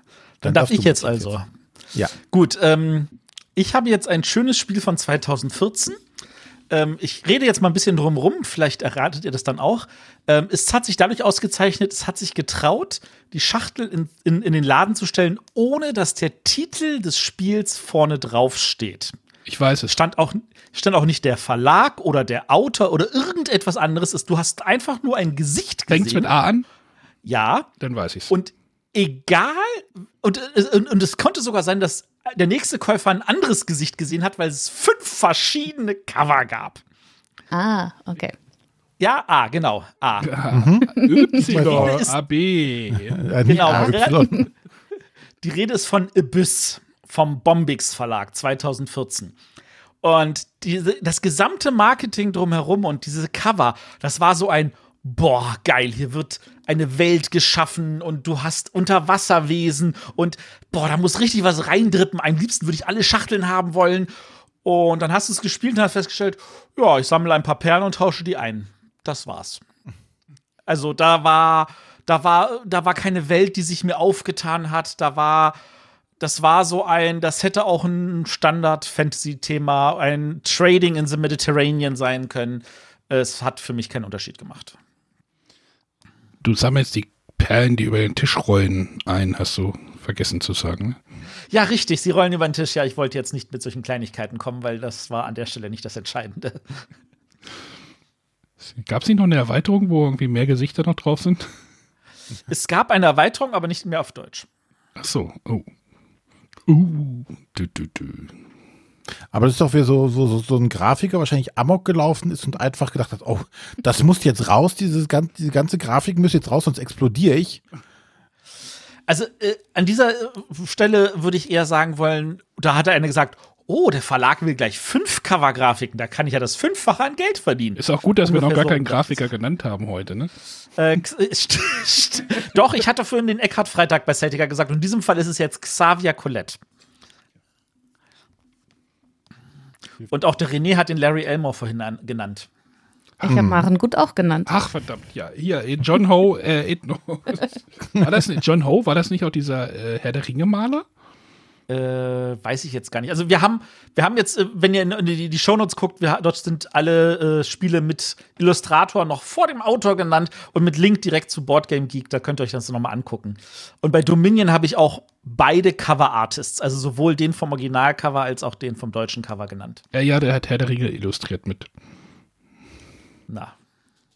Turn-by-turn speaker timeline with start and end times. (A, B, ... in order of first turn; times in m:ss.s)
0:00.4-0:01.4 A
0:00.4-0:01.5 B
0:02.2-0:06.0 B
0:06.7-0:19.1 B
0:19.5-0:20.0 C
0:19.9-0:26.3 B
0:25.9-0:26.7 C
0:27.2-0:27.7 B
0:27.8-0:28.3 C
0:28.3-0:36.8 B
0:37.5-0:38.4 D
0:39.0-0:40.3 B
0:40.2-0:44.2 C
0:40.5-0:42.1 A
0:41.4-0:42.2 B
0:42.9-0:44.5 A
0:43.5-0:44.4 B
0:45.4-0:49.4 B
0:50.0-1:04.1 B
1:04.6-1:09.6 B
1:10.7-1:15.6 B
1:16.2-1:24.8 B
1:26.4-1:31.0 C
1:31.5-1:36.6 B
1:38.7-1:41.5 C
1:42.5-1:44.5 B
1:45.0-1:45.7 C
1:46.7-1:48.3 C
1:49.3-1:57.6 A
1:59.1-2:09.2 B
2:07.8-2:10.3 C
2:10.8-2:16.6 B
2:20.1-2:22.5 B
2:23.2-2:23.6 A
2:23.3-2:24.5 D
2:24.5-2:30.8 C
2:31.7-2:49.8 B
2:49.9-2:51.7 C
2:53.3-2:53.5 B